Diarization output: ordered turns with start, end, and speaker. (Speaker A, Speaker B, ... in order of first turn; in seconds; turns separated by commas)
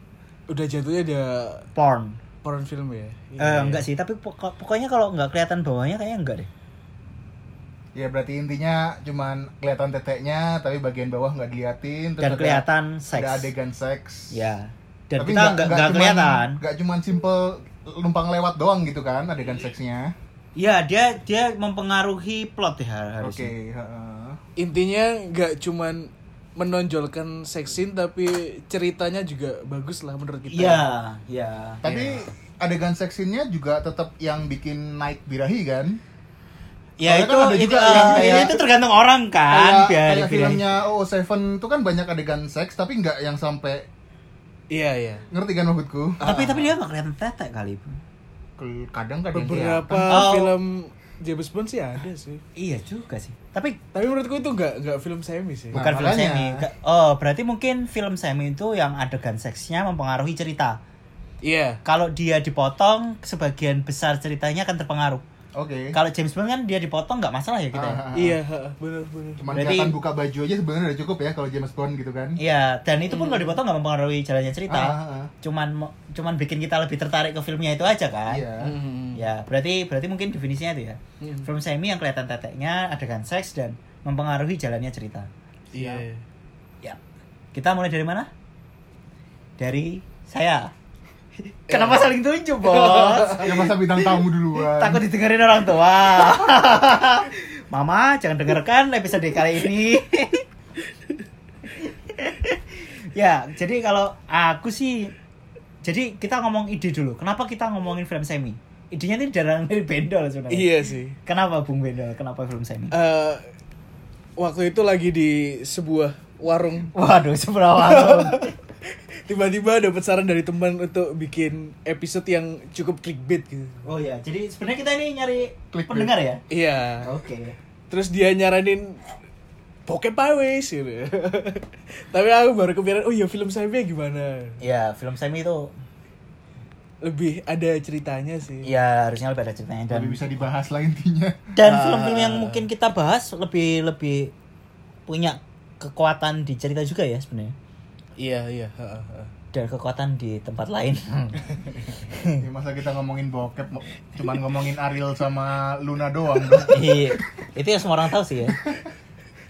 Speaker A: 0.5-1.6, Speaker B: 1.8-2.2, Speaker A: 2.4-3.9, Speaker B: 3.4-6.5, Speaker C: 7.9-14.4, Speaker B: 12.2-13.5, Speaker B: 14.3-16.6, Speaker C: 15.2-20.1, Speaker B: 20.6-23.5, Speaker C: 23.2-24.4, Speaker A: 24.6-30.9, Speaker B: 30.5-32.2, Speaker C: 31.8-36.0, Speaker B: 37.0-40.6, Speaker C: 37.0-38.6, Speaker C: 39.5-43.9, Speaker A: 44.7-45.2, Speaker C: 45.3-46.7, Speaker B: 46.2-48.0, Speaker C: 48.6-50.3, Speaker A: 49.3-52.4, Speaker B: 50.1-50.5, Speaker B: 52.5-53.8, Speaker A: 53.9-55.8, Speaker C: 55.7-56.7, Speaker B: 55.7-60.8, Speaker A: 61.4-61.8, Speaker B: 61.8-65.2, Speaker C: 65.5-66.0, Speaker B: 65.9-68.0, Speaker C: 67.7-68.4, Speaker A: 68.1-69.4, Speaker C: 69.4-72.4, Speaker B: 69.5-70.0, Speaker B: 72.4-78.4, Speaker A: 73.1-73.6, Speaker C: 74.7-75.3, Speaker C: 78.3-78.7, Speaker A: 78.6-79.2, Speaker B: 79.1-85.3, Speaker A: 81.2-81.5, Speaker A: 85.7-86.2, Speaker C: 85.7-86.0, Speaker B: 87.5-88.3, Speaker B: 89.6-90.7, Speaker B: 91.7-93.5, Speaker A: 91.7-93.7, Speaker C: 93.4-95.0, Speaker B: 94.7-100.4, Speaker B: 101.8-105.1, Speaker B: 105.8-110.7, Speaker A: 110.5-111.2, Speaker B: 111.2-113.0, Speaker A: 112.9-113.4, Speaker A: 114.4-116.9, Speaker B: 116.9-118.5, Speaker A: 117.8-123.8, Speaker B: 123.8-126.4, Speaker C: 125.7-126.1, Speaker A: 126.5-127.1, Speaker B: 127.0-127.5, Speaker A: 127.9-129.0, Speaker A: 129.9-134.6, Speaker B: 134.6-135.7, Speaker A: 137.0-138.7, Speaker B: 138.6-140.4, Speaker C: 139.9-141.4, Speaker B: 141.5-144.3, Speaker A: 141.6-142.7, Speaker B: 145.1-147.5, Speaker A: 148.2-149.3, Speaker B: 149.5-152.4, Speaker C: 152.4-157.2, Speaker B: 156.6-158.6